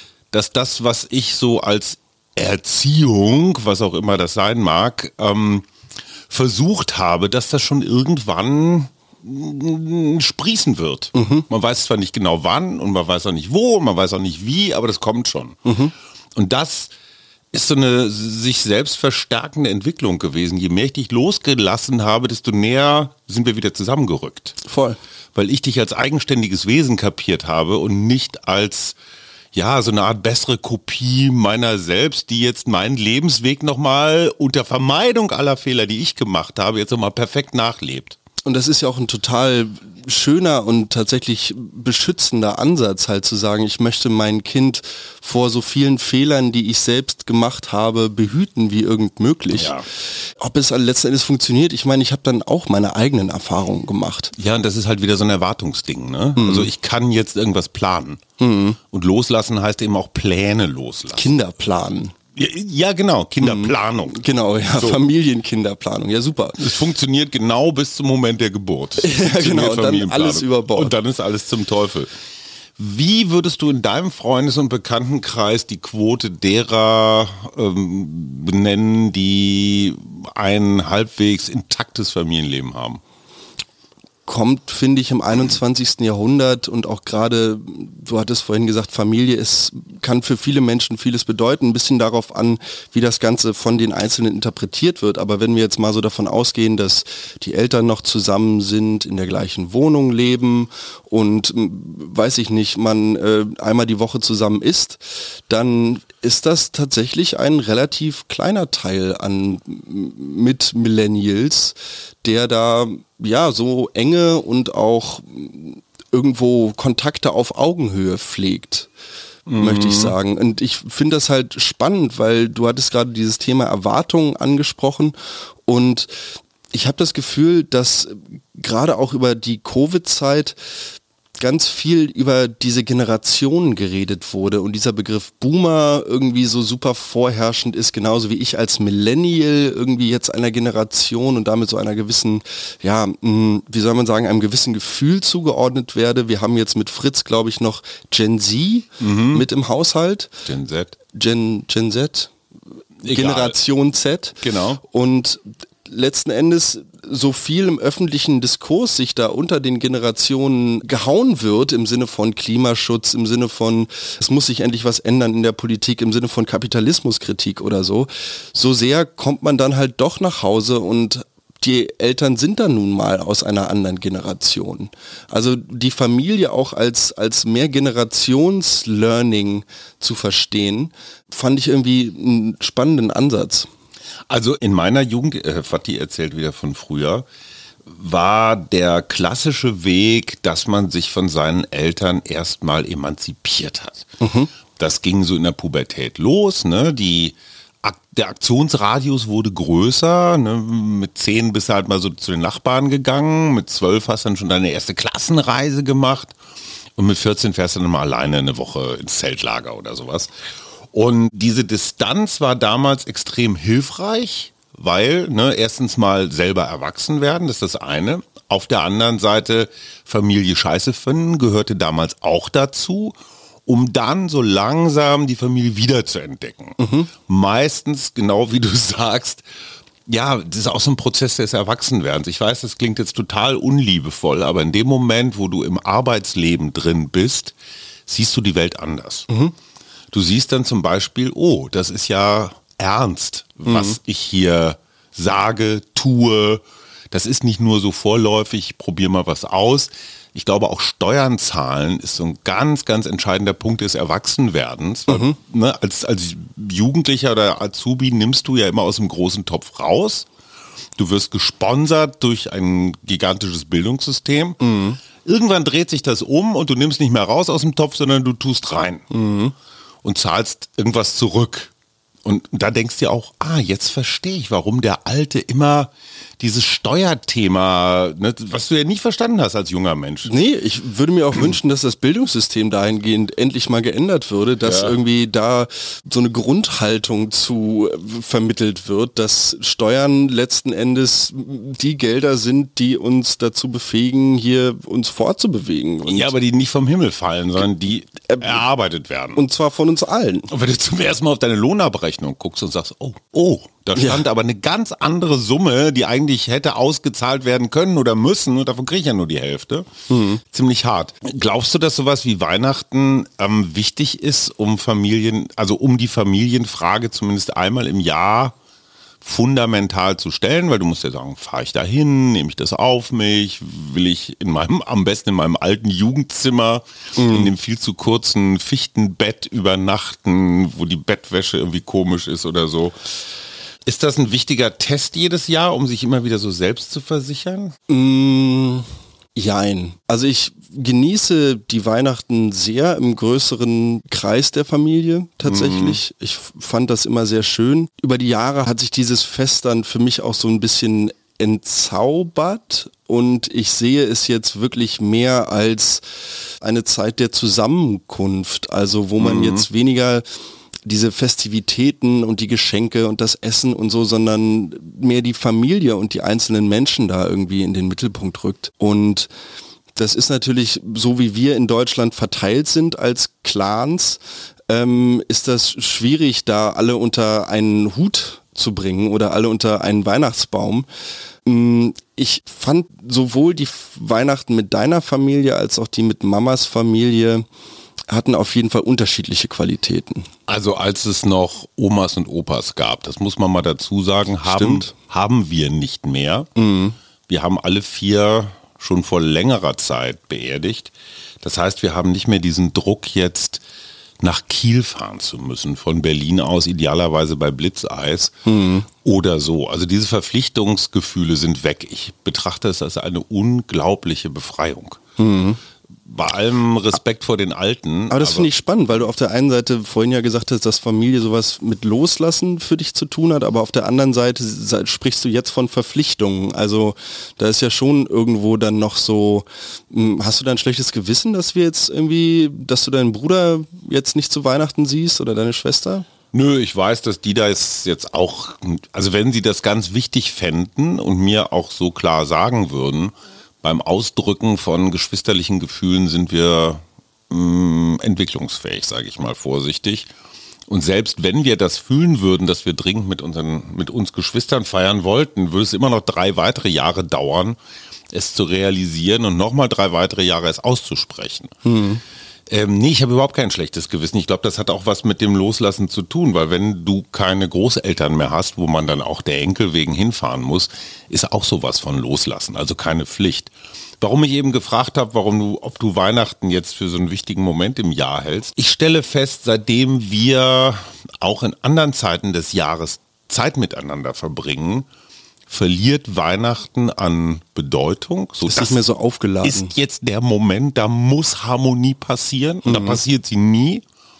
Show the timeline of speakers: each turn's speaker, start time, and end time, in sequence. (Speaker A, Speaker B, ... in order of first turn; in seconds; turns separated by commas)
Speaker A: 0.3-5.7, Speaker A: 6.3-15.6, Speaker B: 11.1-11.4, Speaker B: 15.6-15.9, Speaker A: 16.3-16.9, Speaker A: 17.5-24.6, Speaker B: 24.6-25.0, Speaker A: 25.3-28.9, Speaker A: 29.5-38.2, Speaker B: 38.4-54.3, Speaker A: 49.5-49.9, Speaker A: 54.3-58.2, Speaker B: 56.4-56.7, Speaker B: 58.4-58.8, Speaker A: 58.9-61.3, Speaker B: 61.1-62.1, Speaker A: 62.3-64.2, Speaker B: 63.4-66.7, Speaker A: 64.7-65.0, Speaker A: 66.6-72.1, Speaker B: 69.0-71.0, Speaker A: 72.8-83.0, Speaker B: 84.3-118.9, Speaker A: 119.5-120.1, Speaker B: 119.6-130.6, Speaker B: 131.4-150.3, Speaker A: 149.0-149.4, Speaker A: 150.4-150.9, Speaker B: 151.1-152.3, Speaker A: 153.0-153.5, Speaker B: 153.0-183.7, Speaker A: 154.4-154.8, Speaker A: 184.3-187.2, Speaker A: 187.8-194.1, Speaker B: 194.2-194.5, Speaker A: 194.8-206.3, Speaker A: 207.0-210.3, Speaker A: 210.9-229.4, Speaker B: 226.8-227.1, Speaker A: 230.1-237.5, Speaker A: 238.1-239.3, Speaker B: 239.3-239.5, Speaker A: 240.1-260.3, Speaker B: 243.6-244.0, Speaker B: 255.1-255.4, Speaker A: 261.0-264.6, Speaker B: 264.6-265.0, Speaker A: 265.2-269.0, Speaker B: 269.1-269.5, Speaker A: 270.0-271.7, Speaker A: 272.2-280.3, Speaker B: 280.2-296.3, Speaker A: 284.6-285.0, Speaker A: 296.0-299.4, Speaker B: 299.3-300.5, Speaker A: 300.5-309.9, Speaker B: 303.9-304.2, Speaker B: 310.1-310.4, Speaker A: 310.4-318.5, Speaker A: 319.2-332.9, Speaker B: 327.1-327.5, Speaker A: 333.9-337.7, Speaker B: 337.9-356.0, Speaker A: 345.4-346.0, Speaker B: 356.6-360.2, Speaker A: 359.2-359.7, Speaker B: 360.8-369.3, Speaker B: 369.9-380.9, Speaker B: 381.4-387.4, Speaker B: 388.1-390.3, Speaker A: 390.5-396.5, Speaker B: 394.4-394.9, Speaker B: 396.6-396.9, Speaker A: 397.3-403.6, Speaker A: 404.2-408.3, Speaker B: 408.4-408.9, Speaker A: 409.0-415.0, Speaker B: 415.2-415.6, Speaker A: 416.1-418.5, Speaker B: 418.1-436.1, Speaker A: 436.3-450.1, Speaker A: 450.7-457.6, Speaker A: 458.1-461.5, Speaker B: 461.6-462.0, Speaker A: 462.5-484.9, Speaker A: 485.5-488.8, Speaker B: 488.4-489.7, Speaker A: 489.4-493.8, Speaker B: 492.6-493.0